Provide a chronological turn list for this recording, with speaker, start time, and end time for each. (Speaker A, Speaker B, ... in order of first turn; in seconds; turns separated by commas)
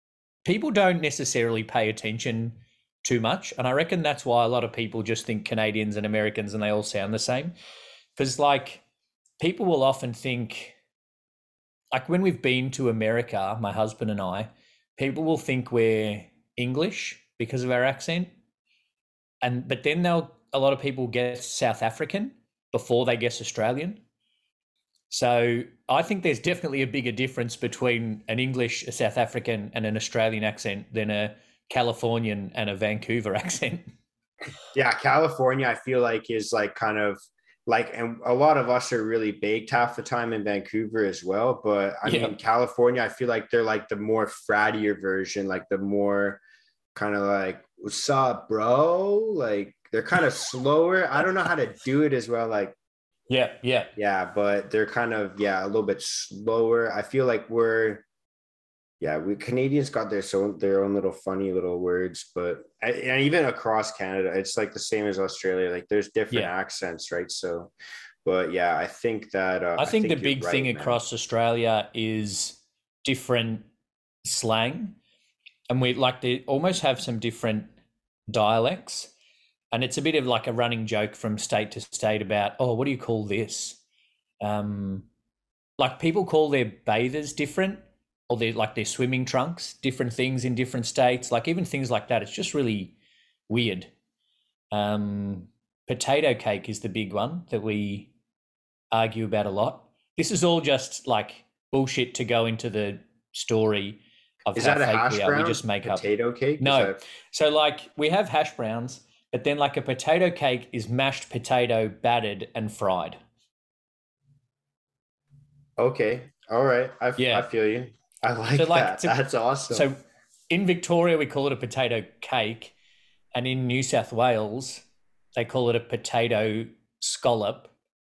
Speaker A: 0.5-7.5, Speaker A: 8.2-8.8, Speaker A: 9.4-10.8, Speaker A: 11.9-18.3, Speaker A: 19.4-24.0, Speaker A: 25.1-33.9, Speaker B: 34.7-46.4, Speaker A: 42.0-42.4, Speaker B: 47.0-52.8, Speaker A: 53.3-53.9, Speaker B: 54.0-58.0, Speaker B: 59.0-67.7, Speaker B: 68.2-71.0, Speaker A: 69.8-73.7, Speaker A: 74.2-75.0, Speaker A: 75.7-77.7, Speaker A: 78.3-79.1, Speaker A: 79.7-83.8, Speaker A: 84.4-85.1, Speaker A: 85.8-93.0, Speaker A: 93.5-93.9, Speaker A: 94.7-98.1, Speaker A: 98.9-106.1, Speaker B: 104.5-107.0, Speaker A: 106.6-113.2, Speaker B: 115.8-119.9, Speaker A: 117.2-117.5, Speaker A: 118.5-119.2, Speaker A: 119.7-120.0, Speaker A: 120.5-122.8, Speaker A: 123.3-124.8, Speaker A: 125.4-127.7